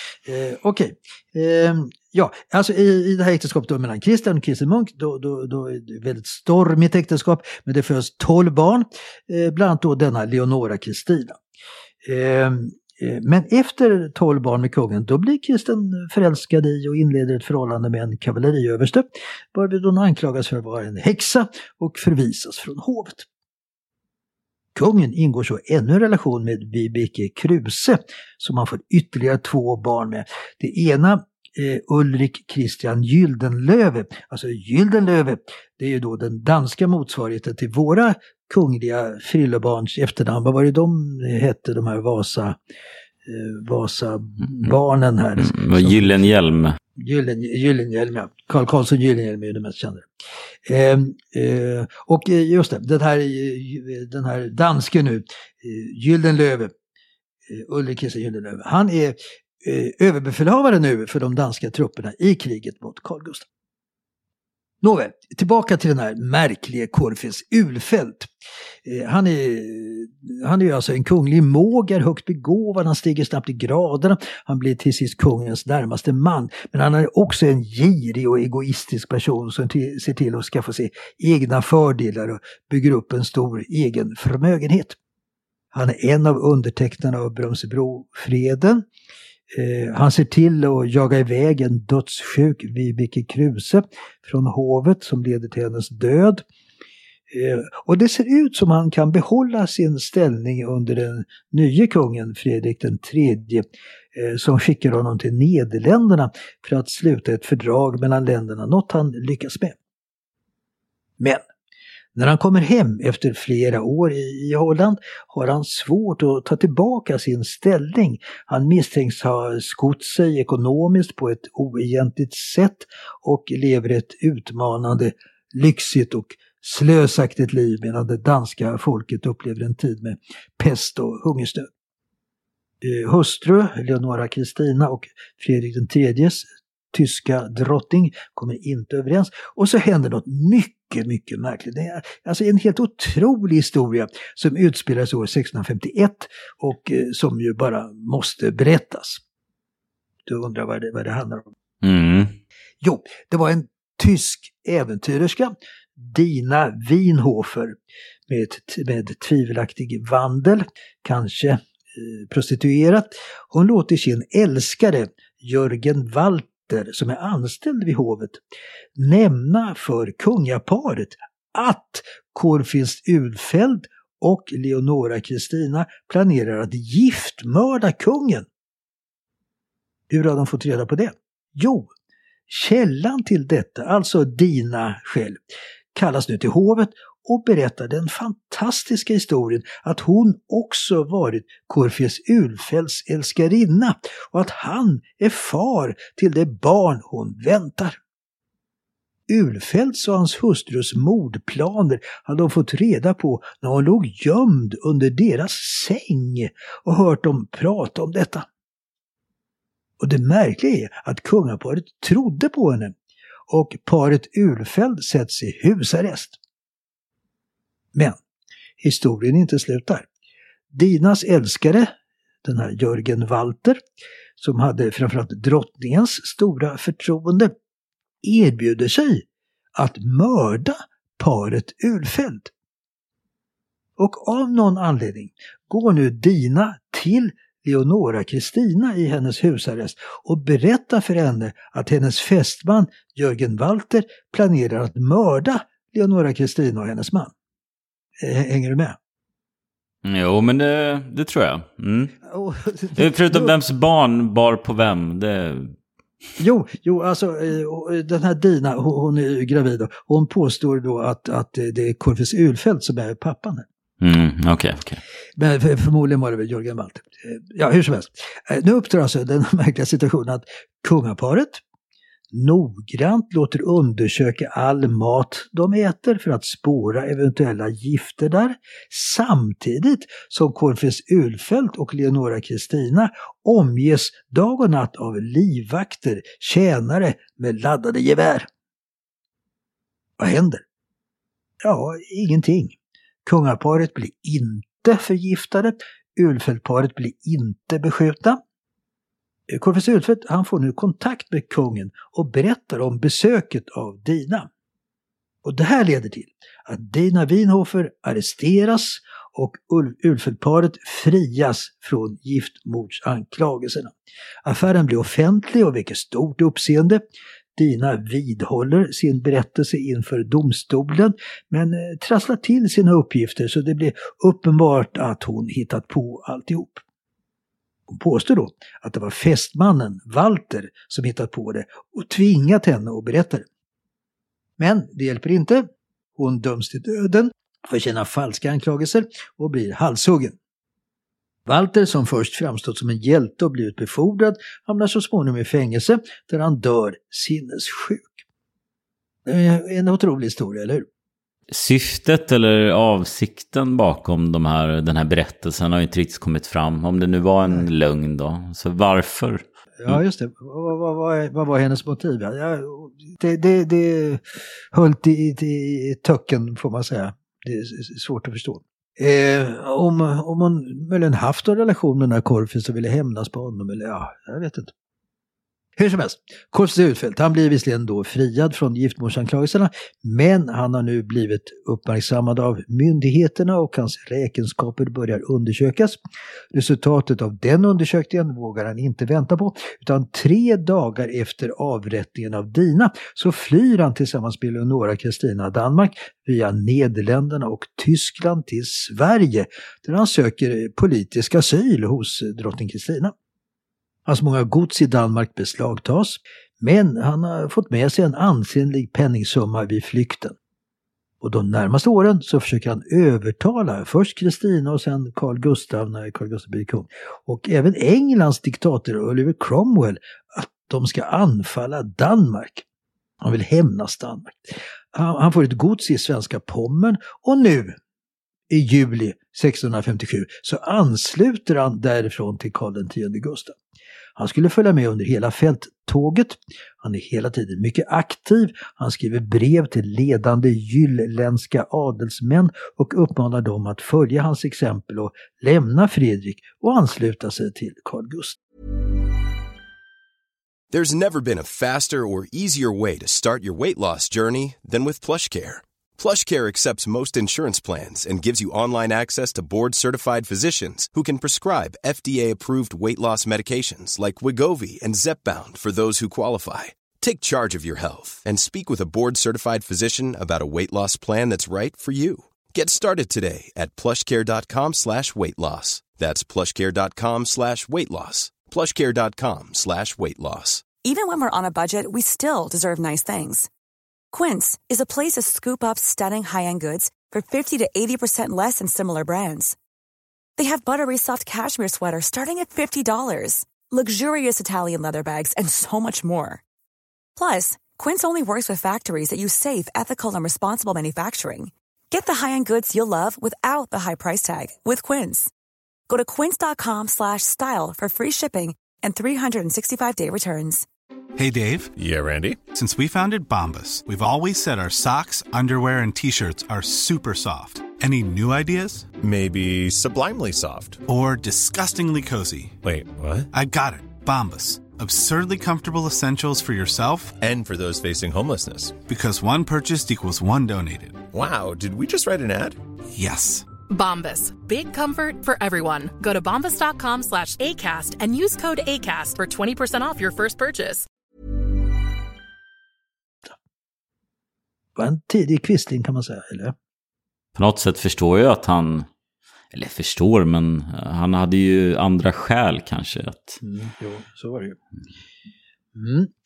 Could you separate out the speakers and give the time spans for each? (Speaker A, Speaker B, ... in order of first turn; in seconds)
Speaker A: 0.3-11.4, 12.0-23.3, 24.8-42.6, 43.3-46.2, 47.0-50.1, 50.7-56.7, 57.5-63.5, 64.8-68.3, 68.8-85.0, 85.7-88.8, 89.5-96.4, 97.3-109.8, 112.2-131.7, 132.8-149.2, 150.3-151.5, 152.8-157.8, 158.3-168.4, 169.0-178.5, 180.1-181.9, 182.5-185.4, 185.9-198.0, 199.3-208.5, 210.0-212.9, 213.5-216.4, 218.8-220.1, 220.7-221.9, 222.4-223.8, 224.4-227.5, 228.2-232.5, 234.0-247.3, 248.2-249.0, 252.2-253.5, 256.4-263.7, 265.4-271.6, 272.3-288.5, 290.2-290.6, 291.6-298.4, 299.5-304.5, 305.4-313.9, 314.4-317.0, 317.6-326.8, 327.9-333.4, 334.6-340.4, 341.5-348.2, 349.3-350.9, 359.8-364.2, 364.7-374.7, 375.8-386.0, 386.5-403.1, 404.1-410.4, 411.2-422.6, 423.2-427.8, 428.5-433.6, 434.2-448.4, 544.8-546.5, 553.4-554.6, 555.8-556.1
Speaker B: 45.4-46.8, 151.8-152.3, 250.0-252.2, 252.9-255.8, 264.0-265.0, 351.5-360.0, 547.4-548.9, 549.5-553.4
Speaker C: 450.7-480.6
Speaker D: 480.8-483.5, 484.1-489.6, 490.4-496.4, 497.2-505.3, 505.9-510.7
Speaker E: 511.2-511.7, 512.5-518.9, 520.9-522.6, 523.3-527.1, 528.9-531.0, 532.9-533.5
Speaker F: 511.8-512.4, 519.0-520.8, 522.6-523.3, 527.2-528.8, 531.1-532.6
Speaker G: 533.7-540.9